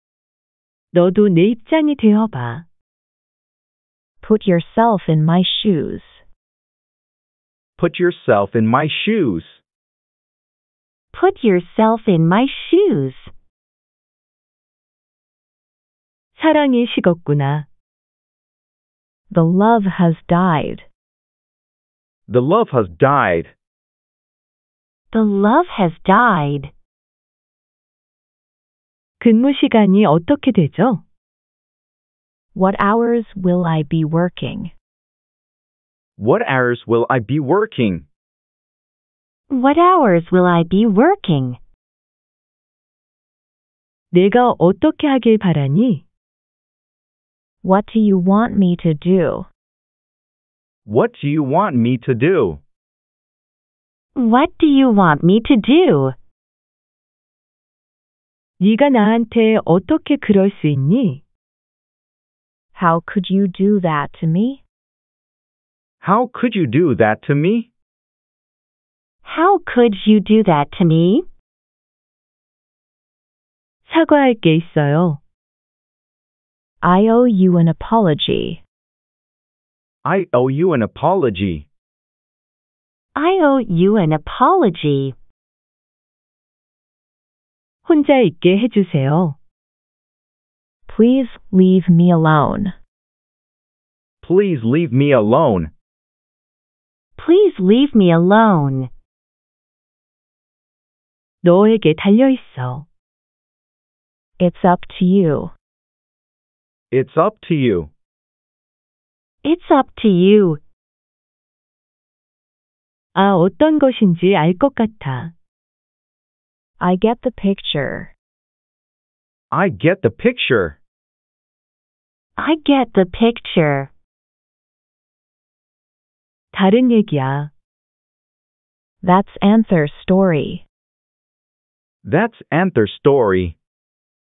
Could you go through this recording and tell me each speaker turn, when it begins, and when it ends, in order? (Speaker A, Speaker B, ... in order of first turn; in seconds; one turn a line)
Speaker A: 0.9-2.6
Speaker B: 4.2-6.2
Speaker C: 7.8-9.6
Speaker D: 11.1-13.3
Speaker A: 16.4-17.6
Speaker B: 19.3-20.9
Speaker C: 22.3-23.5
Speaker D: 25.1-26.7
Speaker A: 29.2-31.0
Speaker B: 32.5-34.7
Speaker C: 36.2-38.0
Speaker D: 39.5-41.6
Speaker A: 44.1-46.0
Speaker B: 47.6-49.5
Speaker C: 50.9-52.6
Speaker D: 54.1-56.1
Speaker A: 58.6-61.2
Speaker B: 62.7-64.6
Speaker C: 66.0-67.7
Speaker D: 69.2-71.2
Speaker A: 73.9-75.2
Speaker B: 76.8-78.6
Speaker C: 80.0-81.7
Speaker D: 83.1-85.1
Speaker A: 87.8-89.4
Speaker B: 90.9-92.7
Speaker C: 94.2-95.7
Speaker D: 97.2-98.9
Speaker A: 101.4-102.8
Speaker B: 104.4-105.5
Speaker C: 106.9-107.9
Speaker D: 109.4-110.6
Speaker A: 113.1-115.3
Speaker B: 116.8-118.1
Speaker C: 119.5-120.8
Speaker D: 122.4-123.9
Speaker A: 126.5-127.5
Speaker B: 129.0-130.6
Speaker C: 132.0-133.6